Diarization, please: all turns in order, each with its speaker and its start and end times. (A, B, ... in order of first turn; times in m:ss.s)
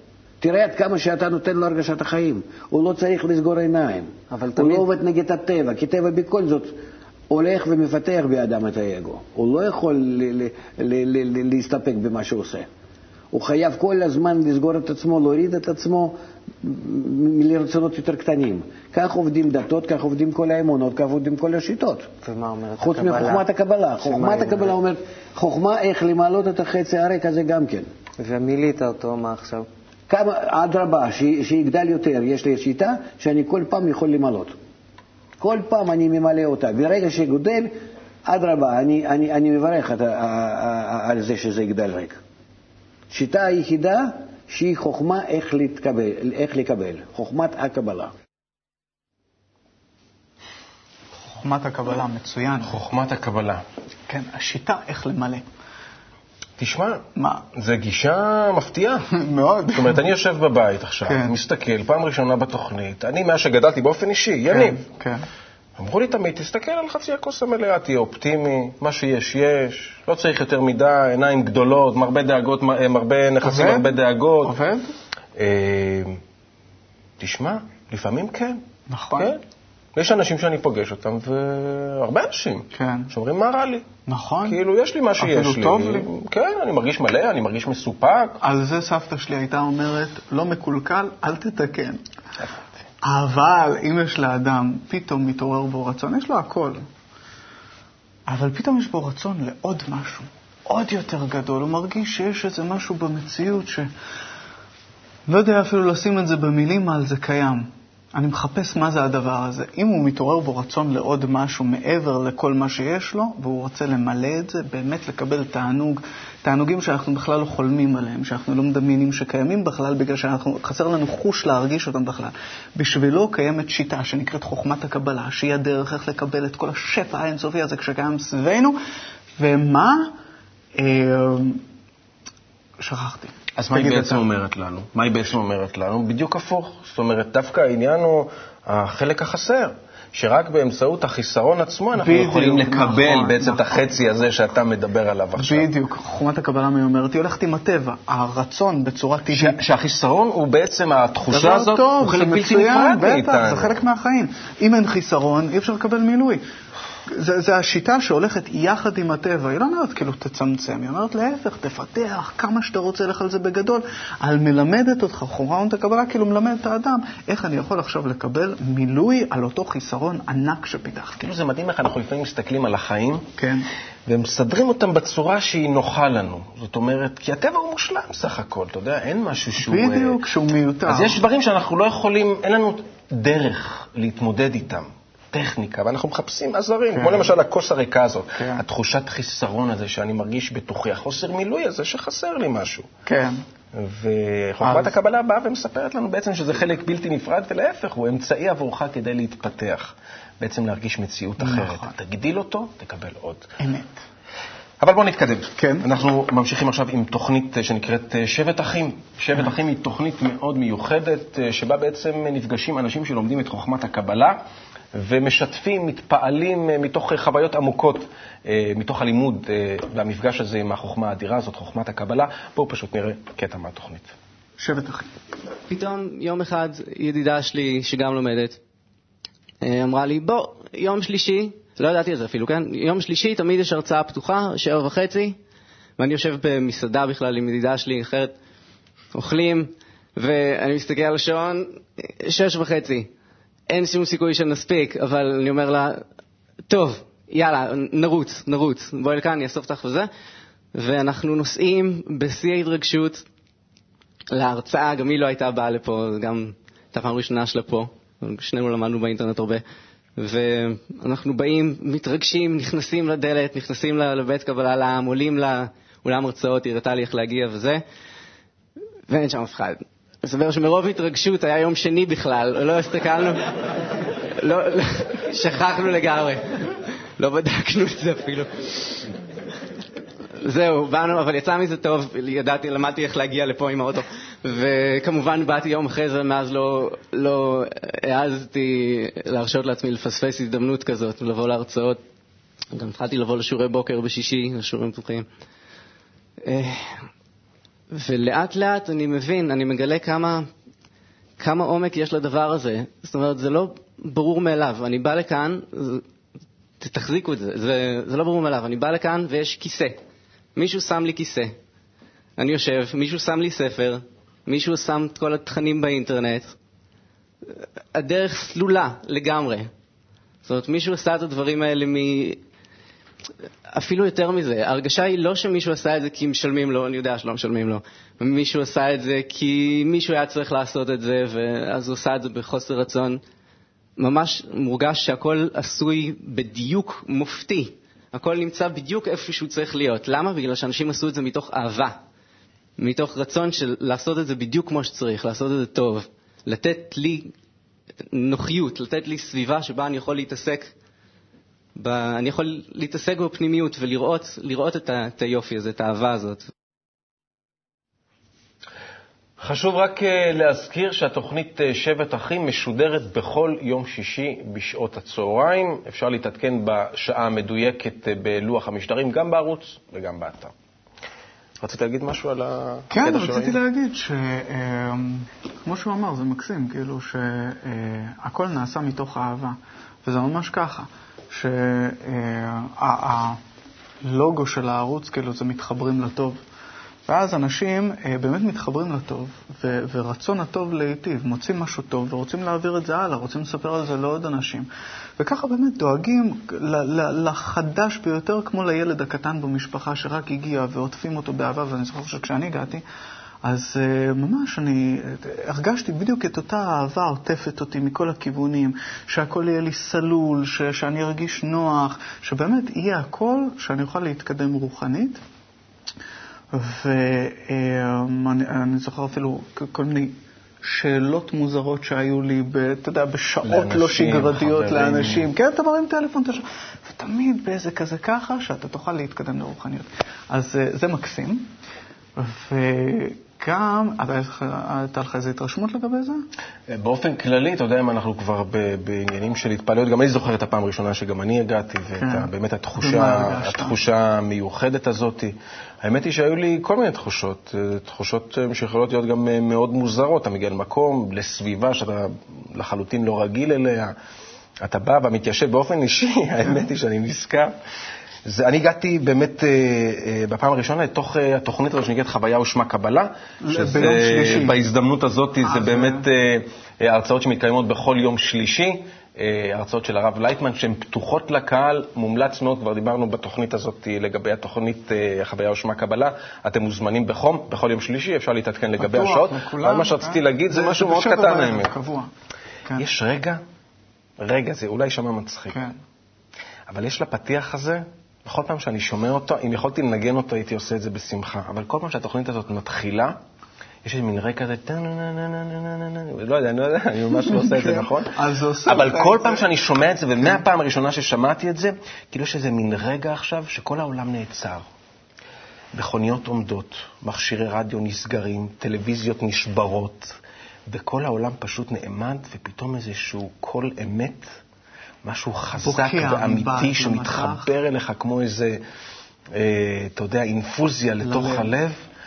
0:00.4-0:06.8 A
0:04.3-0:04.9 B
0:07.3-0:12.7 A
0:13.3-0:22.1 A
0:22.2-0:23.5 B
0:22.8-0:27.9 A
0:24.0-0:24.8 B
0:28.2-0:29.7 B
0:30.1-0:34.6 A
0:35.4-0:42.2 A
0:43.1-0:48.1 A
0:51.4-0:52.8 C
0:52.6-0:53.6 D
0:54.1-0:55.4 C
0:56.6-0:57.0 D
0:57.2-0:57.4 C
0:57.5-0:59.1 D
0:59.1-1:00.0 C
0:59.7-1:04.8 D
1:01.1-1:01.4 C
1:04.5-1:05.2 C
1:05.8-1:14.6 D
1:13.4-1:14.9 C
1:15.4-1:16.2 D
1:17.2-1:18.6 D
1:18.9-1:19.4 C
1:19.2-1:19.4 D
1:20.0-1:23.9 D
1:22.7-1:23.1 C
1:24.1-1:24.6 C
1:24.5-1:28.4 D
1:25.2-1:26.1 C
1:28.4-1:32.0 C
1:33.0-1:36.8 C
1:38.3-1:43.9 C
1:45.3-2:08.8 C
2:09.4-2:10.1 C
2:10.8-2:11.6 C
2:12.8-2:14.2 C
2:13.6-2:25.7 D
2:21.9-2:24.0 C
2:25.4-2:29.6 C
2:29.3-2:33.8 D
2:31.3-2:36.4 C
2:37.1-2:51.2 C
2:51.2-2:53.3 D
2:53.4-2:53.7 C
2:54.1-3:00.2 D
2:59.6-3:01.2 C
3:00.9-3:12.9 D
3:06.9-3:07.3 C
3:08.4-3:08.6 C
3:13.1-3:13.4 C
3:13.7-3:23.6 D
3:14.6-3:14.9 C
3:21.4-3:21.9 C
3:23.6-3:24.0 C
3:24.8-3:34.4 D
3:25.6-3:25.9 C
3:34.9-3:44.1 D
3:44.6-3:45.1 C
3:45.7-3:48.6 E
3:49.6-3:55.4 E
3:56.0-3:58.3 E
3:59.1-4:03.1 E
4:03.7-4:06.0 E
4:06.7-4:10.1 E
4:10.7-4:13.2 E
4:14.3-4:19.6 E
4:20.2-4:27.8 E
4:29.1-4:33.6 E
4:34.3-4:39.1 E
4:40.4-4:52.0 E
4:52.7-4:55.3 E
4:56.4-4:57.1 E
4:57.9-5:00.5 E
5:01.4-5:06.0 E
5:06.8-5:10.0 E
5:10.6-5:11.5 E
5:12.4-5:16.5 E
5:17.4-5:19.7 E
5:20.4-5:22.4 E
5:23.7-5:33.2 E
5:34.0-5:42.0 E
5:42.8-5:47.3 E
5:48.1-5:50.7 E
5:51.8-5:56.4 E
5:59.4-6:10.5 D
6:11.6-6:13.6 D
6:12.9-6:23.4 C
6:24.0-6:26.4 C
6:27.1-6:42.8 C
6:43.4-6:55.2 C
6:56.5-7:11.5 C
7:03.4-7:05.3 D
7:12.2-7:16.2 C
7:16.7-7:33.9 D
7:22.0-7:23.8 C
7:34.6-7:37.5 D
7:38.3-8:01.7 D
7:43.4-7:44.6 C
7:45.4-7:46.0 C
7:58.8-8:02.1 C
8:02.8-8:03.4 D
8:04.2-8:05.6 D
8:05.5-8:05.8 C
8:06.7-8:13.2 D
8:13.8-8:24.7 D
8:17.4-8:19.4 C
8:25.7-8:30.2 D
8:30.7-8:34.4 D
8:35.0-8:38.6 D
8:35.6-8:37.5 C
8:39.3-8:41.8 D
8:41.0-8:41.5 C